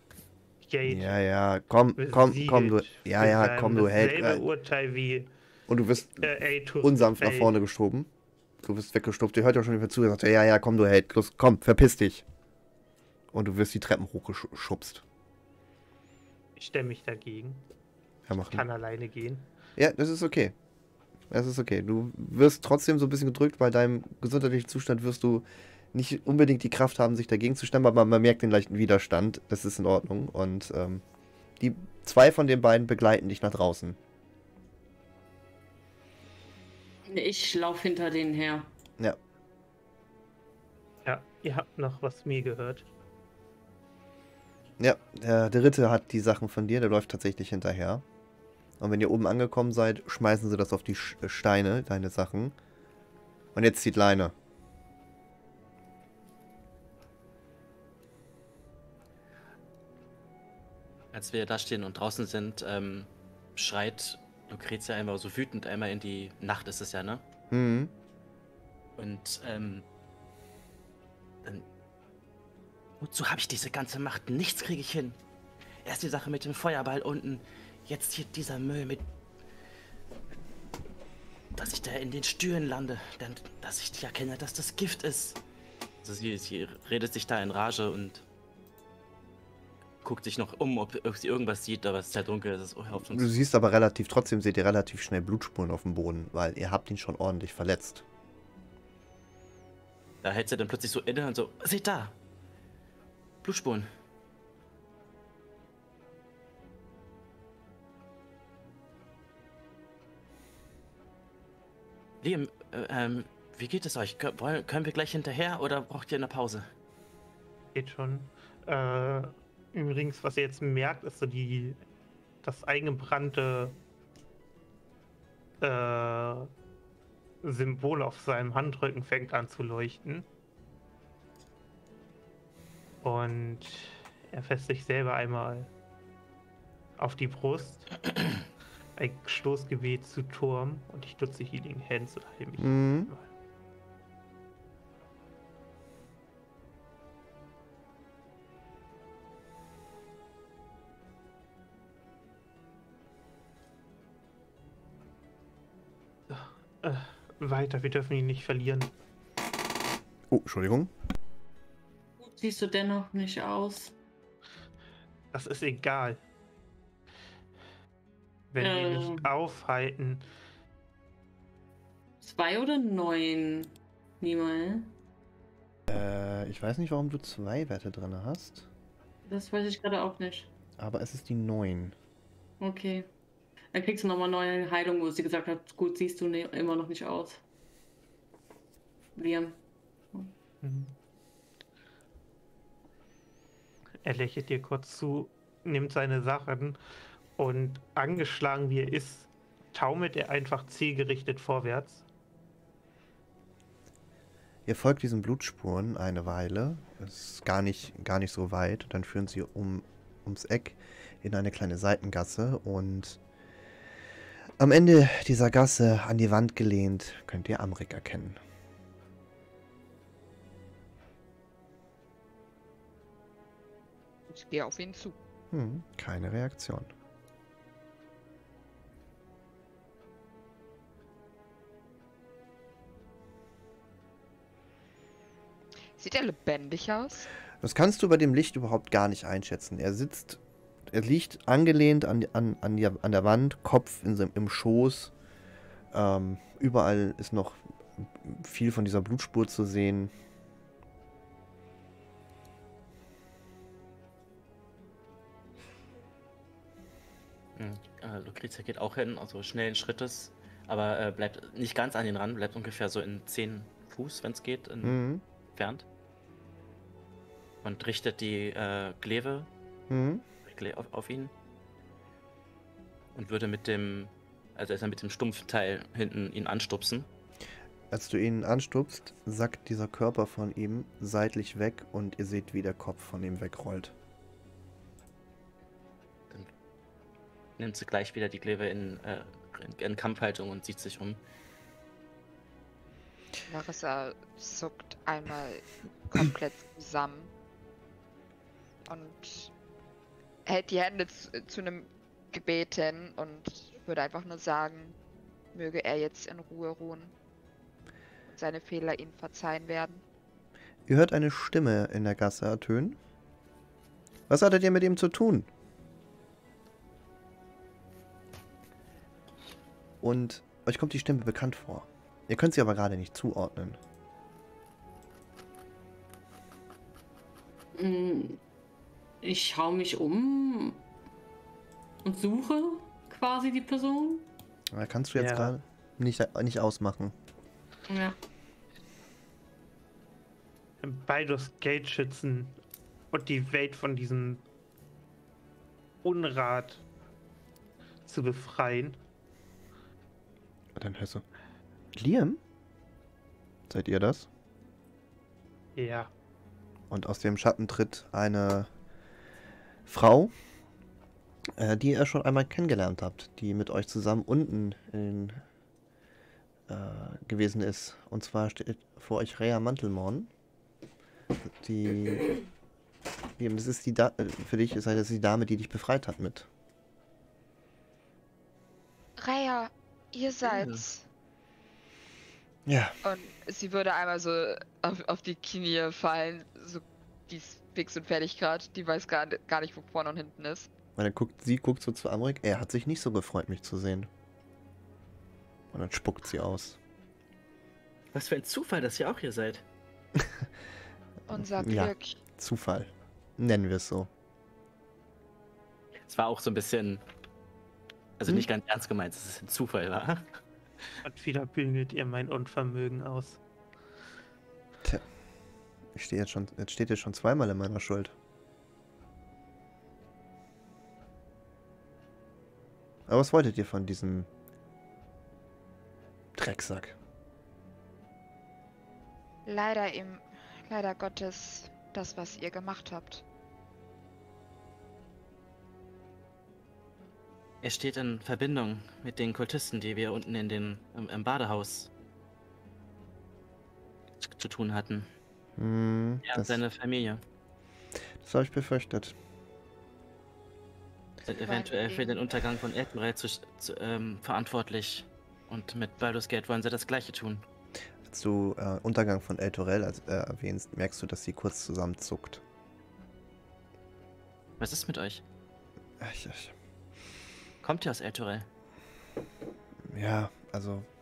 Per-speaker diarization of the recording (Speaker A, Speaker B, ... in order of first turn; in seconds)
Speaker A: 0.6-1.1, 2.0-5.3, 6.2-7.5, 16.6-17.6, 18.5-19.5, 41.0-42.9, 117.7-121.8, 122.4-123.8, 125.6-126.5, 127.4-130.3, 133.0-135.7, 137.0-138.1, 139.0-143.3, 156.3-158.9, 165.3-166.2, 168.5-170.2, 190.6-190.9, 194.0-196.8, 197.4-202.0, 335.2-335.5, 340.8-342.6, 343.1-344.4, 346.0-346.8, 348.1-349.0, 355.8-356.1, 411.0-413.4
Speaker B: 0.8-4.4, 5.7-6.3, 6.8-8.1, 8.6-12.2, 13.3-15.0, 18.3-18.6, 19.8-20.5, 21.3-31.0, 31.6-34.0, 44.8-48.0, 48.8-52.5, 53.5-54.3, 67.5-67.9, 93.1-98.0, 142.6-143.1, 160.3-160.9, 175.9-178.7, 180.8-181.9, 204.7-213.2, 214.6-218.4, 225.5-226.9, 237.6-240.4, 240.9-245.1, 245.9-250.1, 264.8-265.2, 269.9-270.2, 277.9-283.9, 310.9-313.0, 314.3-315.5, 320.0-323.8, 334.7-337.1, 350.8-351.2, 351.9-352.4, 353.7-354.3, 356.9-358.7, 359.9-360.3, 361.6-365.4, 366.7-370.3, 371.6-372.4, 373.4-376.5, 382.7-382.9, 391.0-394.1, 395.7-396.8, 401.3-404.1, 415.9-418.1, 423.1-424.3, 426.4-426.9, 445.6-446.6, 448.2-449.1, 458.1-462.4, 466.0-466.5, 469.9-470.9
Speaker C: 37.0-38.7, 162.2-163.9, 168.6-169.3, 172.2-174.9, 179.2-180.5, 182.6-183.1, 183.7-187.4, 189.2-189.6, 327.7-328.4, 329.2-330.8, 332.0-334.3, 337.9-338.1
Speaker D: 61.1-67.2, 69.0-69.8, 73.0-75.2, 75.8-79.1, 81.5-85.4, 86.0-88.2, 90.0-93.3, 100.2-102.2, 103.4-103.9, 112.2-116.7, 257.6-265.0, 265.5-265.9, 267.6-269.5, 270.4-271.3, 273.1-277.1, 287.6-291.2, 380.4-380.8, 398.1-399.6, 405.9-407.0, 408.2-410.4, 437.6-441.9, 444.2-445.1, 446.2-447.2, 451.2-457.4, 464.6-465.2, 467.6-468.5
Speaker E: 224.3-225.2, 236.0-237.3, 293.5-297.3, 298.9-299.5, 300.4-304.9, 305.5-307.1, 308.4-310.0, 379.2-381.0, 383.0-390.7, 401.3-402.1, 429.4-433.2, 451.4-452.2